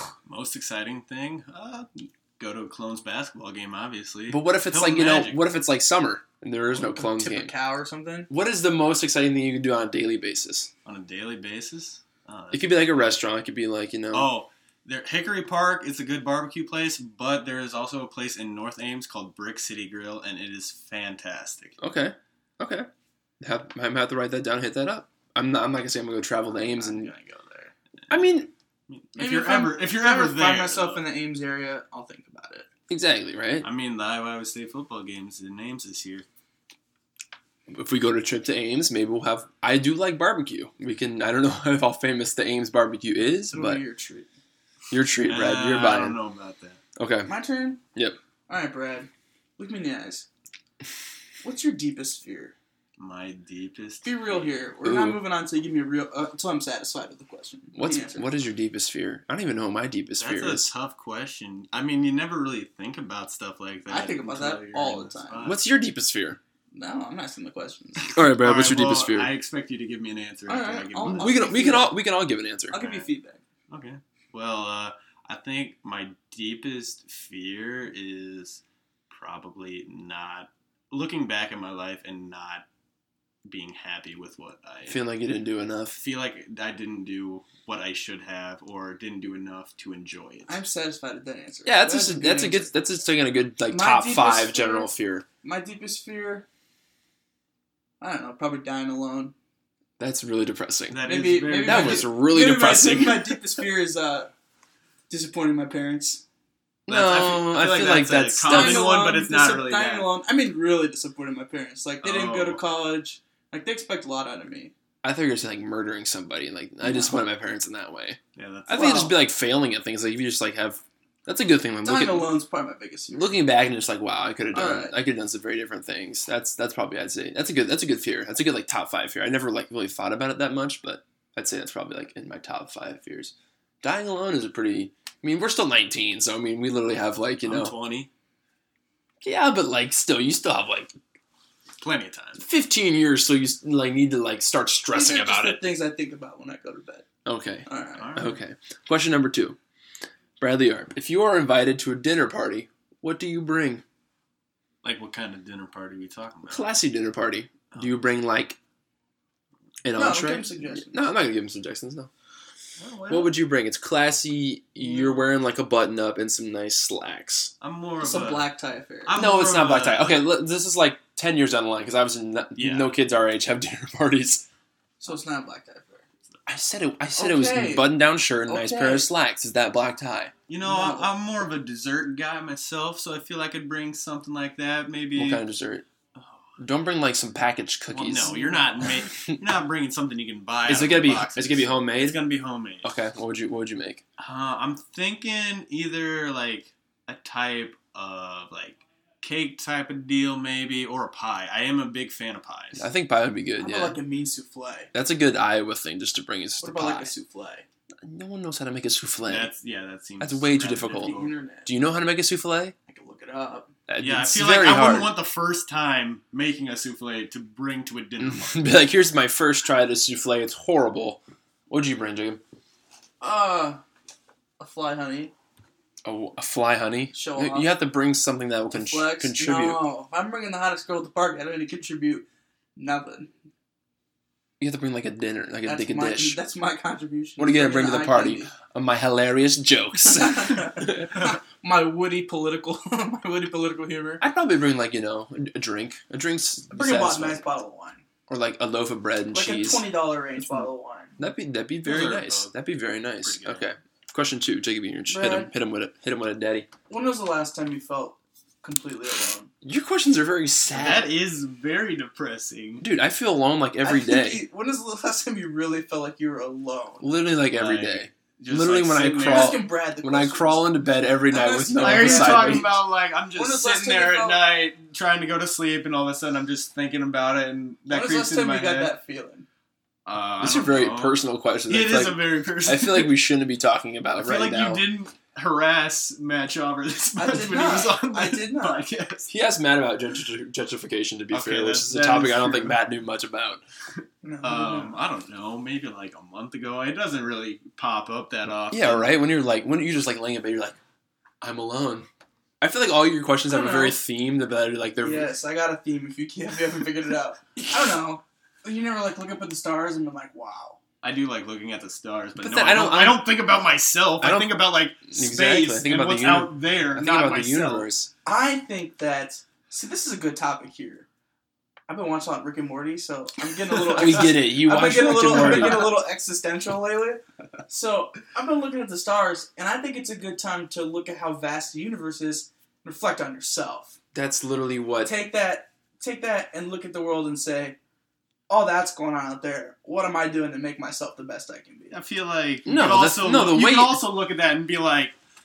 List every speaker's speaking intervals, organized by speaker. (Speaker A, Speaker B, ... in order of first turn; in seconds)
Speaker A: 0.2-5.4, 10.8-13.1, 14.1-21.8, 28.9-31.0, 33.6-36.2, 45.2-46.8, 53.0-54.5, 60.2-65.6, 68.2-71.4, 72.7-73.1, 73.7-82.7, 83.4-85.0, 86.0-90.6, 100.9-102.1, 106.9-110.1, 112.0-112.6, 118.3-119.2, 137.4-138.1, 141.8-142.4, 148.0-148.4, 154.8-156.7, 157.7-158.0, 162.8-163.3, 164.8-165.2, 167.6-168.5, 169.1-170.2, 172.6-173.0, 180.5-185.4, 186.2-186.6, 187.9-192.9, 194.2-202.9, 209.3-211.3, 214.0-218.8, 251.8-252.5, 253.2-253.7, 260.7-262.8, 267.5-269.6, 271.8-278.9, 280.0-283.1, 284.2-289.3, 291.3-292.8, 294.4-299.1, 311.0-317.9, 341.9-345.1
Speaker B: 4.3-7.5, 8.3-10.7, 12.5-14.3, 21.8-22.9, 23.4-27.1, 28.1-28.5, 32.9-33.7, 37.7-43.8, 44.9-46.2, 47.0-47.3, 54.8-55.2, 57.7-60.7, 65.4-66.4, 68.1-69.3, 71.0-72.8, 84.9-86.0, 91.6-95.2, 100.0-101.0, 101.6-103.4, 106.9-108.9, 115.0-122.3, 123.1-137.7, 139.2-140.9, 142.4-145.7, 147.2-149.6, 150.4-153.8, 156.5-158.6, 159.8-162.1, 163.1-167.5, 169.1-174.5, 176.4-180.3, 185.1-185.8, 186.6-188.3, 190.6-192.2, 192.8-194.0, 202.8-204.0, 204.9-207.1, 208.0-209.5, 210.2-212.7, 213.9-215.1, 218.2-222.4, 226.0-229.8, 234.6-236.4, 237.4-241.2, 244.2-247.4, 248.3-249.8, 251.2-256.7, 259.6-261.1, 262.8-264.4, 267.0-272.8, 280.4-284.9, 289.3-293.6, 298.7-300.8, 301.4-302.1, 302.6-305.3, 312.4-313.3, 314.2-318.1, 323.9-326.0, 334.1-335.1, 342.6-344.0
Speaker C: 6.7-8.3, 26.5-27.7, 29.1-32.7, 43.5-44.3, 47.2-47.8, 48.5-50.2, 51.4-52.5, 54.0-58.3, 63.9-65.5, 66.7-68.1, 70.5-72.0, 72.7-73.4, 90.5-92.7, 93.7-94.9, 95.4-96.5, 98.0-99.3, 101.0-104.3, 105.1-106.2, 108.4-114.7, 116.8-117.2, 121.8-123.3, 124.5-124.9, 144.9-147.0, 147.7-148.2, 159.9-161.0, 168.0-169.2, 175.0-176.0, 177.2-179.1, 180.6-181.1, 188.2-188.9, 203.6-204.9, 206.6-207.6, 210.9-211.7, 212.9-213.7, 223.2-223.8, 224.6-225.3, 227.1-227.7, 228.7-233.3, 235.6-238.5, 240.1-244.2, 246.7-248.0, 249.3-251.2, 255.1-255.5, 256.9-259.5, 263.8-267.1, 269.2-270.8, 271.3-272.8, 273.3-274.4, 277.9-279.4, 287.2-288.9, 294.2-295.0, 303.5-304.0, 305.0-310.8, 318.2-321.1, 321.9-333.9, 335.0-337.8, 338.5-342.0